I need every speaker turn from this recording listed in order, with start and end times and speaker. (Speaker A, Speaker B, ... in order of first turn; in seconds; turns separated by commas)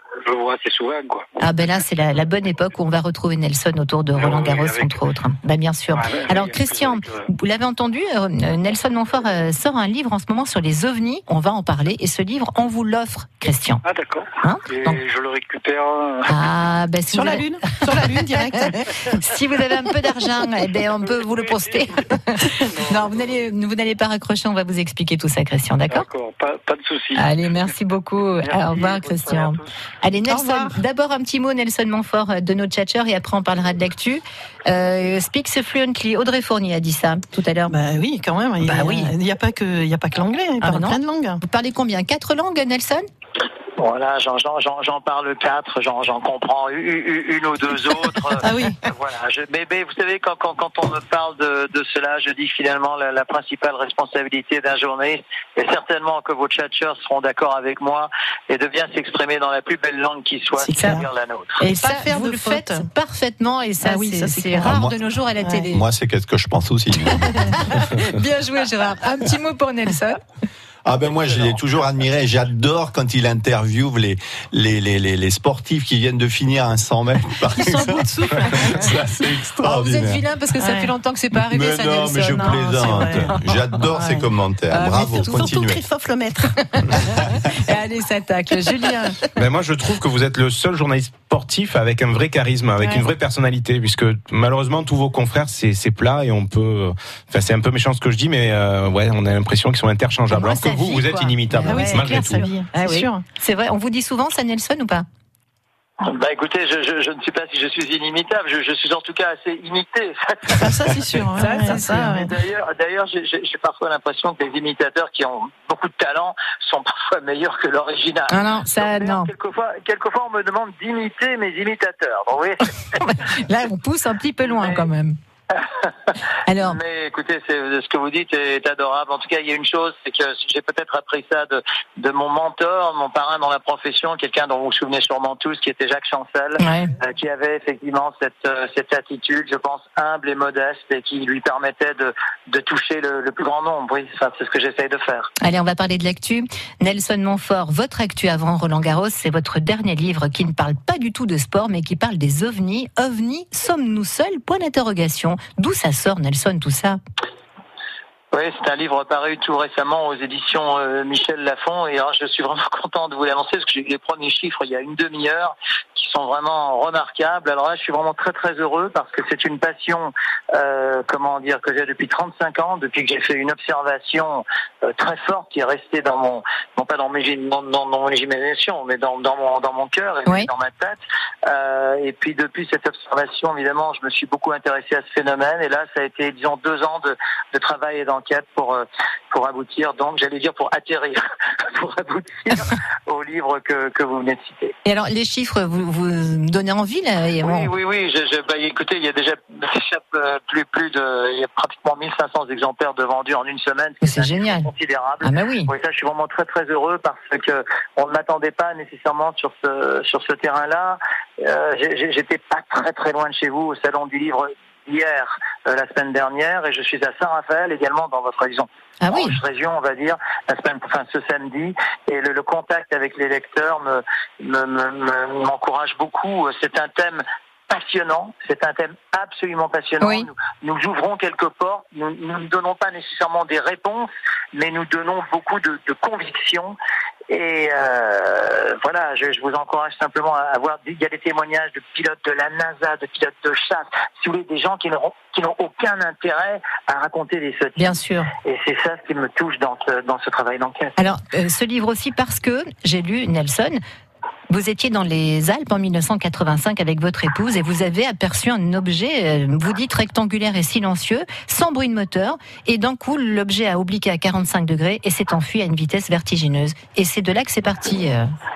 Speaker A: 0.2-1.3, Speaker B: 1.4-13.8, Speaker A: 4.1-5.0, Speaker A: 5.9-7.3, Speaker A: 13.8-16.4, Speaker B: 14.4-14.9, Speaker B: 16.2-17.4, Speaker C: 17.1-18.9, Speaker B: 19.1-26.1, Speaker A: 21.1-21.8, Speaker A: 22.7-23.4, Speaker A: 25.9-27.8, Speaker B: 27.1-37.8, Speaker A: 28.4-29.7, Speaker C: 30.3-30.8, Speaker C: 37.7-41.4, Speaker B: 38.6-39.1, Speaker B: 40.6-43.0, Speaker D: 43.8-61.6, Speaker C: 48.4-48.8, Speaker C: 60.6-61.0, Speaker C: 61.6-62.9, Speaker B: 61.6-65.8, Speaker C: 63.8-64.8, Speaker E: 64.6-65.0, Speaker C: 65.4-65.7, Speaker E: 65.7-67.6, Speaker B: 67.3-70.2, Speaker E: 70.8-80.2, Speaker D: 71.1-71.6, Speaker C: 77.5-79.0, Speaker B: 79.6-83.7, Speaker C: 80.6-80.9, Speaker E: 81.4-85.8, Speaker C: 82.4-83.3, Speaker C: 83.9-84.2, Speaker B: 84.7-85.5, Speaker C: 84.8-87.2, Speaker B: 86.7-89.2, Speaker F: 89.3-102.4, Speaker B: 100.3-105.0, Speaker C: 101.6-103.2, Speaker D: 106.0-110.8, Speaker C: 110.5-112.3, Speaker B: 111.4-112.2, Speaker D: 111.7-123.0, Speaker B: 118.3-119.3, Speaker B: 123.0-125.2, Speaker D: 124.5-124.8, Speaker D: 125.5-145.3, Speaker B: 126.5-126.8, Speaker B: 136.6-136.9, Speaker B: 145.4-157.0, Speaker D: 158.3-194.7, Speaker B: 194.8-197.7, Speaker D: 197.4-236.8, Speaker B: 204.0-204.7, Speaker B: 205.2-205.7, Speaker B: 219.0-219.4, Speaker B: 230.0-230.3, Speaker D: 237.3-250.9, Speaker B: 247.8-248.3, Speaker B: 251.0-253.8, Speaker B: 254.5-268.3